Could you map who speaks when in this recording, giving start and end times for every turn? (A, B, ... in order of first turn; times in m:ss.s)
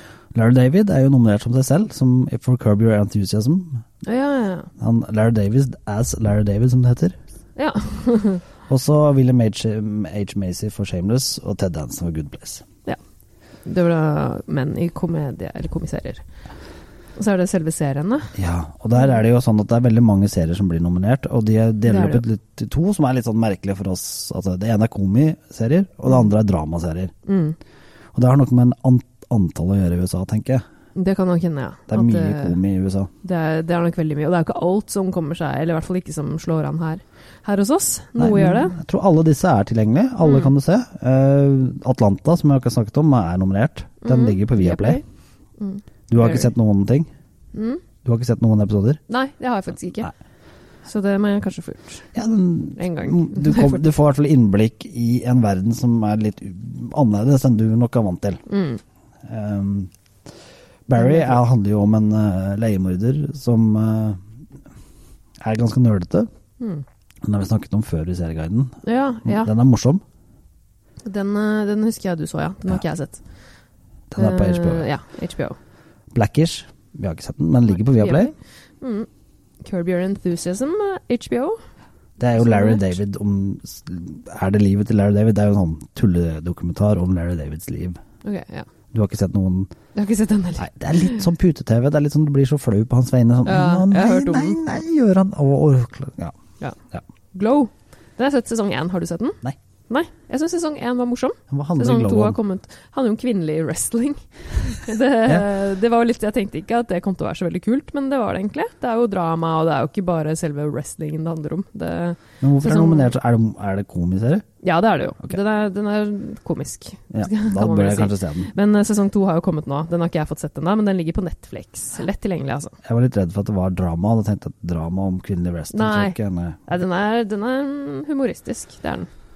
0:00.3-0:03.8 A
0:04.0-0:04.7 B
0:04.8-0:07.2 A
0:07.6-0:08.4 B
0:08.7-0:12.6 A
0:13.6-0:16.2 B
0:17.2-0:18.3 B
0:18.4-0:27.1 A
0:21.9-0:22.2 B
0:27.3-0:27.6 B
0:28.2-0:30.6 A
0:31.0-0:32.6 B
0:31.9-0:33.1 A
0:33.2-0:38.8 B
0:38.2-0:45.0 A
0:40.2-0:40.5 B
0:44.0-0:45.0 B
0:45.6-0:46.5 B
0:46.1-0:47.1 A
0:47.5-0:47.8 B
0:48.0-0:49.0 A
0:49.1-0:50.1 B
0:50.8-0:52.1 B
0:52.2-0:58.4 A
0:52.8-0:53.8 B
0:58.5-0:58.8 B
0:59.3-0:59.9 A
1:00.9-1:04.2 A
1:01.0-1:01.4 B
1:05.4-1:06.3 A
1:07.2-1:10.0 A
1:08.8-1:09.5 B
1:11.0-1:13.2 B
1:14.1-1:14.9 A
1:14.2-1:15.6 B
1:16.1-1:18.3 A
1:17.8-1:19.1 B
1:19.6-1:21.6 B
1:22.2-1:28.0 A
1:22.4-1:23.0 B
1:28.2-1:28.7 B
1:28.9-1:29.7 A
1:30.0-1:31.3 B
1:30.6-1:36.4 A
1:33.4-1:34.6 B
1:37.3-1:53.1 B
1:41.5-1:42.4 A
1:52.4-1:54.5 A
1:54.6-2:02.8 B
1:57.1-1:58.5 A
2:02.8-2:06.6 A
2:05.7-2:09.1 B